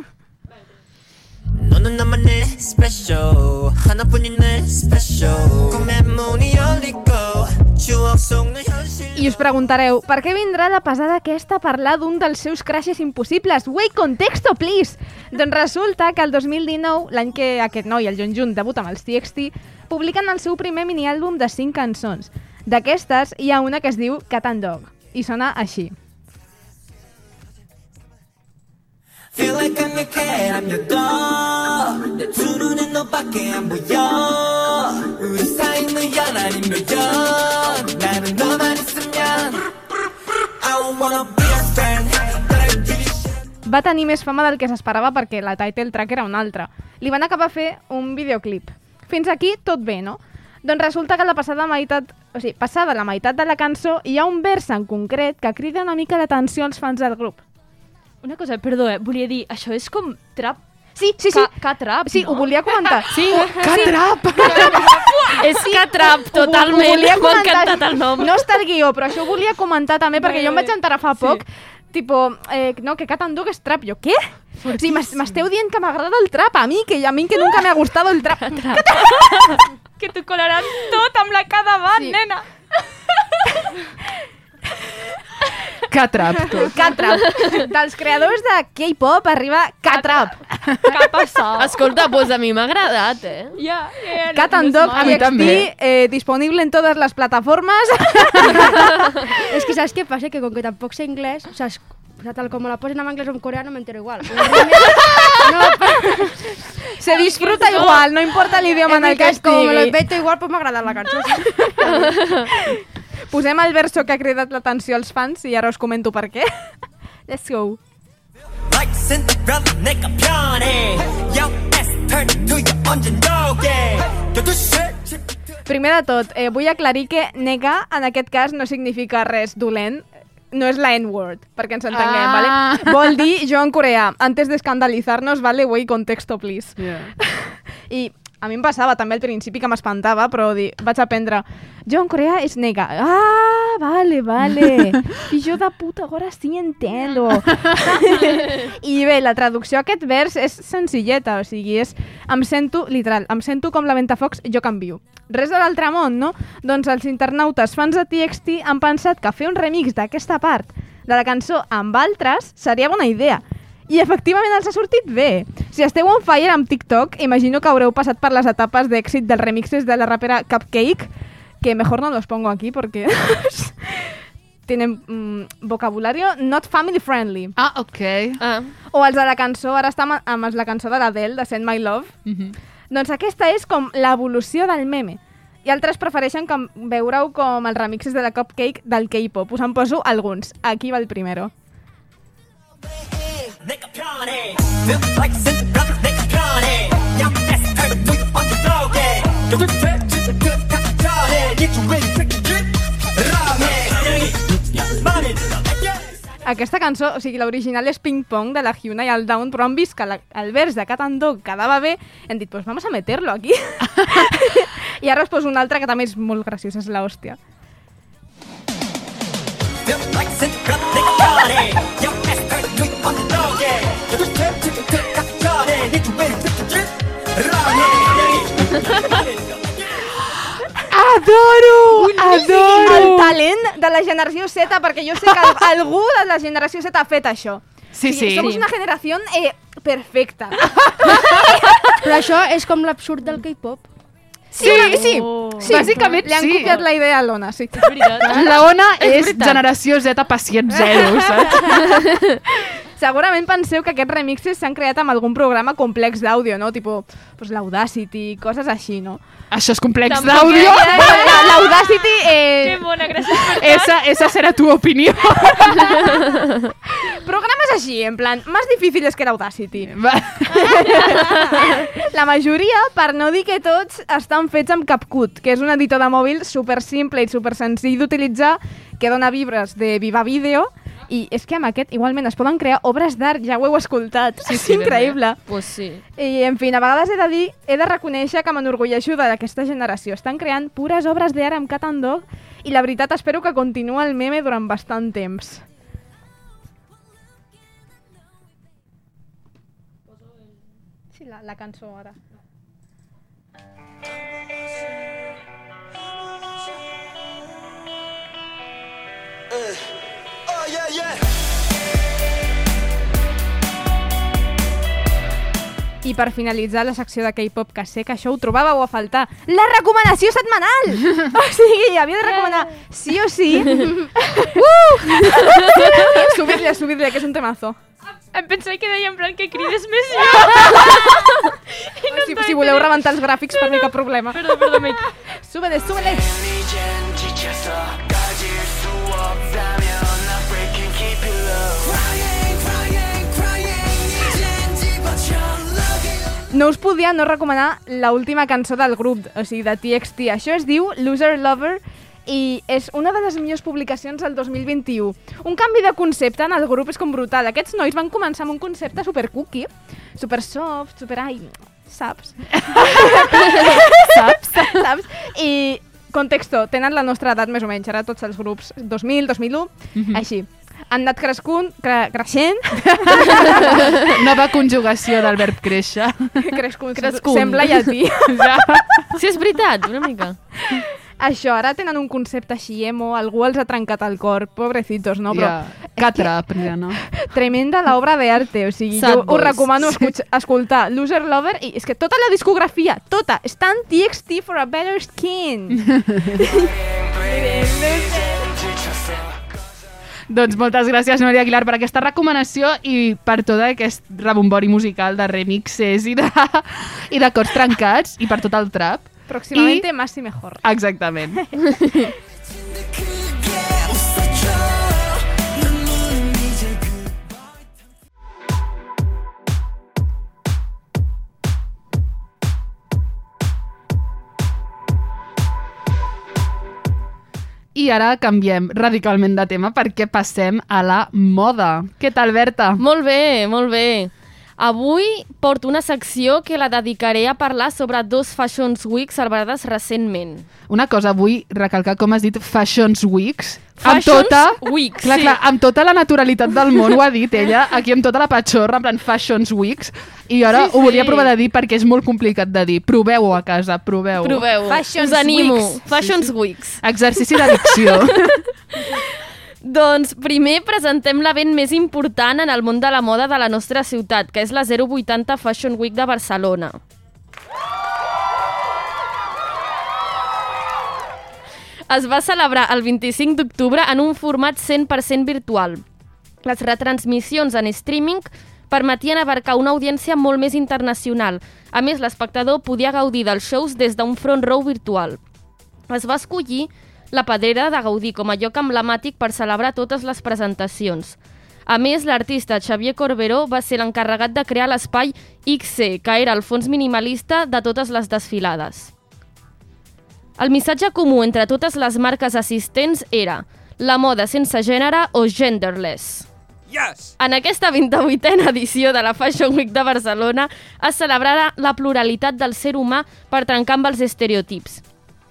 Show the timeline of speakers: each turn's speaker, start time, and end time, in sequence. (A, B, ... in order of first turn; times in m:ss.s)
0:01.6-0:09.3 A
0:09.1-0:25.9 B
0:29.3-0:39.7 A
0:40.6-0:43.3 A
0:43.6-0:57.4 B
0:58.2-1:00.6 C
1:01.0-1:04.0 B
1:01.1-1:02.5 C
1:03.1-1:03.5 D
1:03.3-1:05.4 C
1:03.5-1:04.9 E
1:04.5-1:19.2 B
1:05.4-1:08.4 D
1:10.2-1:11.4 C
1:14.7-1:15.4 E
1:18.5-1:23.3 C
1:22.0-1:22.2 B
1:25.9-1:26.8 E
1:26.5-1:30.4 B
1:29.9-1:31.7 C
1:31.6-1:33.6 D
1:33.6-1:35.6 C
1:34.3-1:39.3 B
1:34.9-1:35.7 E
1:39.5-1:46.3 F
1:47.0-1:50.0 B
1:47.4-1:48.0 F
1:48.9-1:52.4 F
1:52.2-1:56.7 B
1:57.3-1:57.8 B
1:58.7-2:05.1 A
2:05.7-2:51.1 B
2:11.9-2:13.1 E
2:16.8-2:17.1 E
2:27.5-2:27.8 E
2:51.6-2:57.5 B
2:57.6-2:58.4 E
2:58.4-2:58.7 D
2:58.9-3:02.1 B
3:02.2-3:02.5 E
3:02.9-3:11.5 B
3:15.1-3:19.7 A
3:20.9-3:22.5 A
3:23.2-3:24.3 A
3:24.9-3:25.4 A
3:26.4-3:37.4 B
3:39.9-3:46.8 A
3:47.4-3:49.2 A
3:50.9-3:53.4 E
3:51.9-4:01.9 B
3:57.9-3:58.5 E
3:58.4-3:58.7 C
4:00.7-4:01.7 E
4:02.0-4:03.9 F
4:04.5-4:08.5 B
4:04.6-4:06.8 C
4:04.6-4:06.8 E
4:07.8-4:08.6 C
4:08.2-4:11.8 E
4:11.1-4:11.5 B
4:12.9-4:19.2 B
4:19.5-4:21.4 E
4:20.1-4:23.9 C
4:20.2-4:23.5 B
4:23.6-4:26.1 E
4:27.0-4:29.9 B
4:29.9-4:31.3 E
4:30.6-4:45.4 B
4:44.4-4:45.2 E
4:45.5-4:46.0 D
4:46.2-4:55.6 B
5:01.1-5:02.2 B
5:16.0-5:27.8 B
5:22.2-5:22.7 C
5:28.3-5:33.0 C
5:30.2-5:31.2 B
5:32.1-5:36.4 B
5:33.5-5:35.0 C
5:36.3-5:42.0 A
5:44.1-5:46.0 A
5:46.5-6:13.8 B
6:02.7-6:04.8 E
6:09.9-6:10.2 E
6:12.9-6:16.6 E
6:16.4-6:18.5 B
6:17.0-6:17.9 D
6:18.3-6:19.2 E
6:19.1-6:20.4 D
6:20.6-6:26.3 B
6:25.3-6:27.0 E
6:26.9-6:36.7 B
6:28.9-6:29.7 D
6:35.9-6:36.4 E
6:37.1-6:39.3 A
6:37.4-6:38.2 C
6:40.3-6:49.9 E
6:49.3-6:50.6 B
6:50.6-6:51.9 E
6:53.1-6:55.1 A
6:55.6-6:56.8 A
7:07.7-7:12.8 E
7:12.8-7:20.5 D
7:20.7-7:34.5 E
7:23.8-7:25.4 D
7:30.6-7:31.3 D
7:34.2-7:36.8 D
7:34.7-7:35.8 B
7:36.0-7:38.4 E
7:39.6-7:46.8 D
7:51.9-7:55.8 D
7:56.4-8:05.2 D
8:05.9-8:18.9 D
8:20.4-8:26.3 D
8:27.2-8:34.8 D